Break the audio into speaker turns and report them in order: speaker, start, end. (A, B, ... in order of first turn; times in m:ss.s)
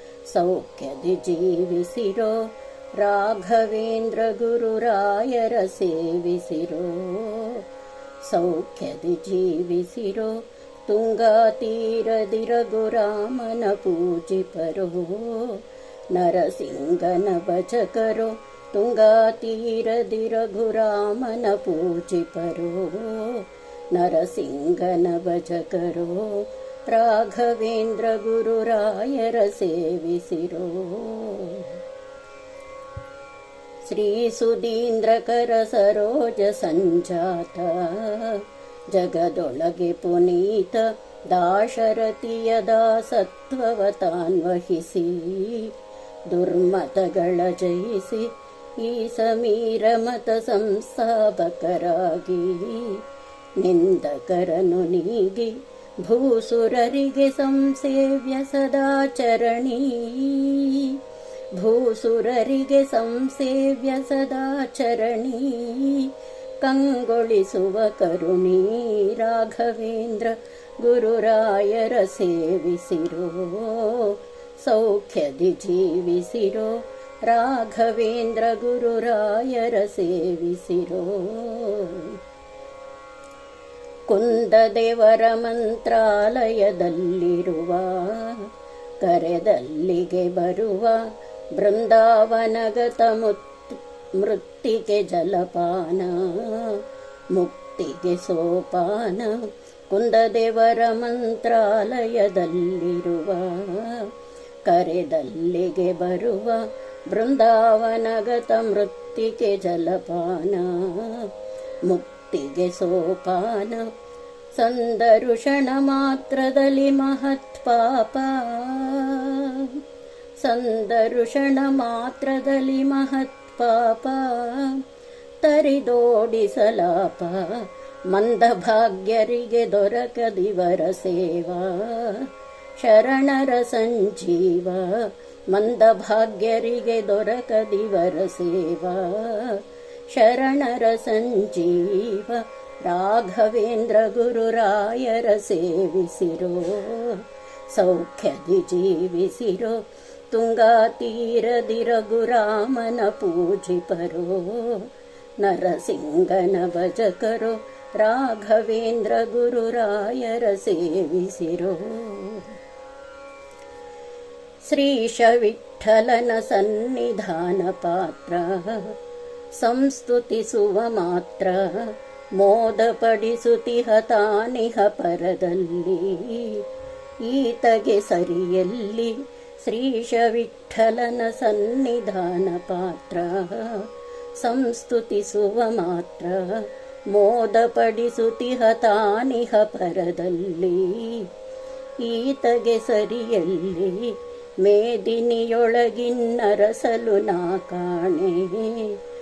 0:00.3-0:07.7 A
0:08.2-0:31.8 A
0:33.8-0:45.7 A
0:46.3-0:53.0 A
0:53.6-1:01.0 A
1:01.6-1:22.2 A
1:24.1-1:28.5 A
1:29.0-1:44.1 A
1:44.7-1:51.3 A
1:51.8-1:53.9 A
1:54.5-1:59.8 A
2:00.4-2:04.8 A
2:05.4-2:42.5 A
2:44.6-2:49.0 A
2:49.6-2:56.6 A
2:57.2-3:11.3 A
3:12.0-3:19.0 A